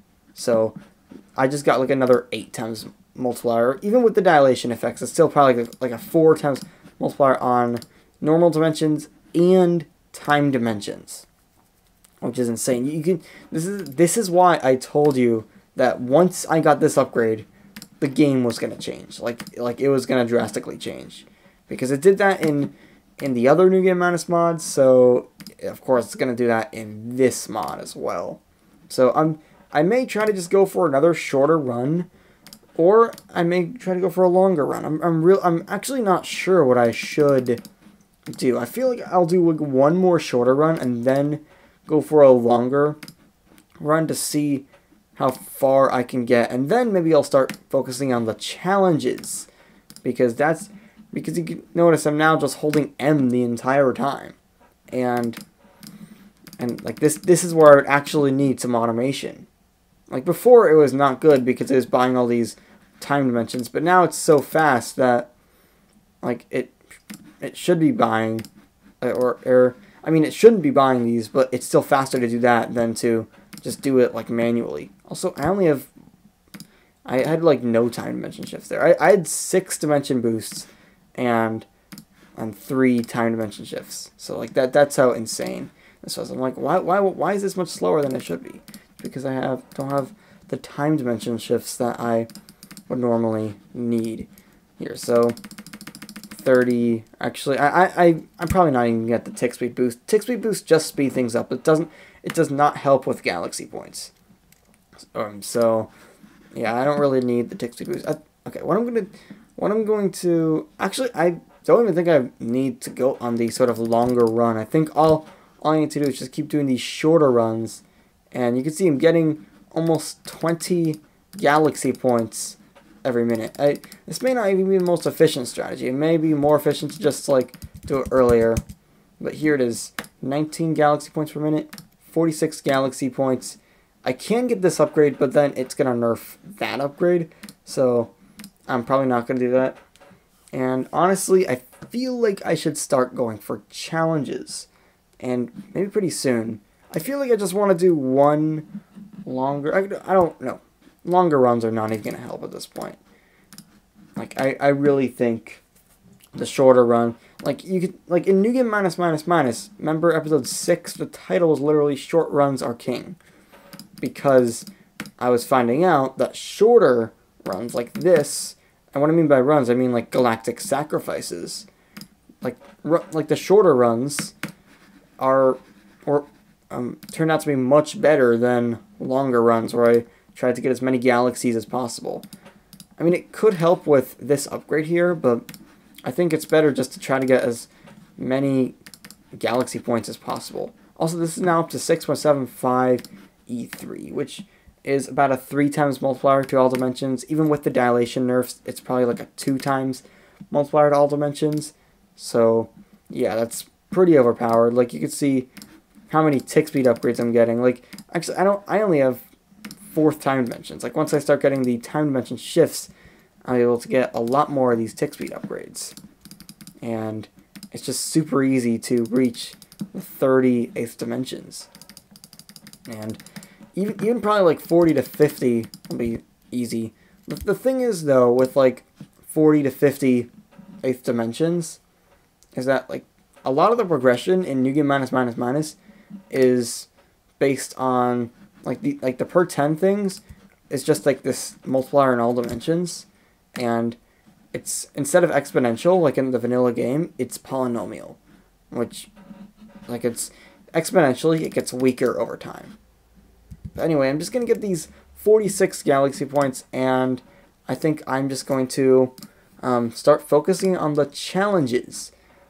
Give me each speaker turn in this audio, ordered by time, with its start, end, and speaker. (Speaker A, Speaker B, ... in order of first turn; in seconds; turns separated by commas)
Speaker A: 0.3-0.8, Speaker A: 1.4-11.2, Speaker A: 12.2-17.5, Speaker A: 18.0-32.1, Speaker A: 32.8-37.6, Speaker A: 38.3-43.0, Speaker A: 43.8-49.5, Speaker A: 50.0-54.4, Speaker A: 54.9-55.4, Speaker A: 56.6-59.5, Speaker A: 60.1-65.3, Speaker A: 66.2-66.8, Speaker A: 67.4-68.5, Speaker A: 69.0-75.9, Speaker A: 77.0-81.7, Speaker A: 82.3-92.3, Speaker A: 92.9-94.3, Speaker A: 94.8-95.3, Speaker A: 96.3-104.1, Speaker A: 105.1-105.9, Speaker A: 106.5-128.6, Speaker A: 129.2-138.1, Speaker A: 138.7-139.8, Speaker A: 140.5-144.7, Speaker A: 145.2-148.7, Speaker A: 149.2-153.0, Speaker A: 154.2-155.6, Speaker A: 156.3-163.2, Speaker A: 164.0-164.7, Speaker A: 165.2-171.7, Speaker A: 172.4-174.3, Speaker A: 175.2-182.2, Speaker A: 183.0-185.4, Speaker A: 186.0-188.8, Speaker A: 189.3-205.5, Speaker A: 206.1-209.2, Speaker A: 209.9-212.9, Speaker A: 213.4-215.9, Speaker A: 216.8-221.7, Speaker A: 222.9-223.2, Speaker A: 223.7-230.3, Speaker A: 230.8-231.8, Speaker A: 232.6-235.8, Speaker A: 236.3-244.0, Speaker A: 244.5-248.2, Speaker A: 248.7-249.1, Speaker A: 249.9-252.8, Speaker A: 253.7-262.1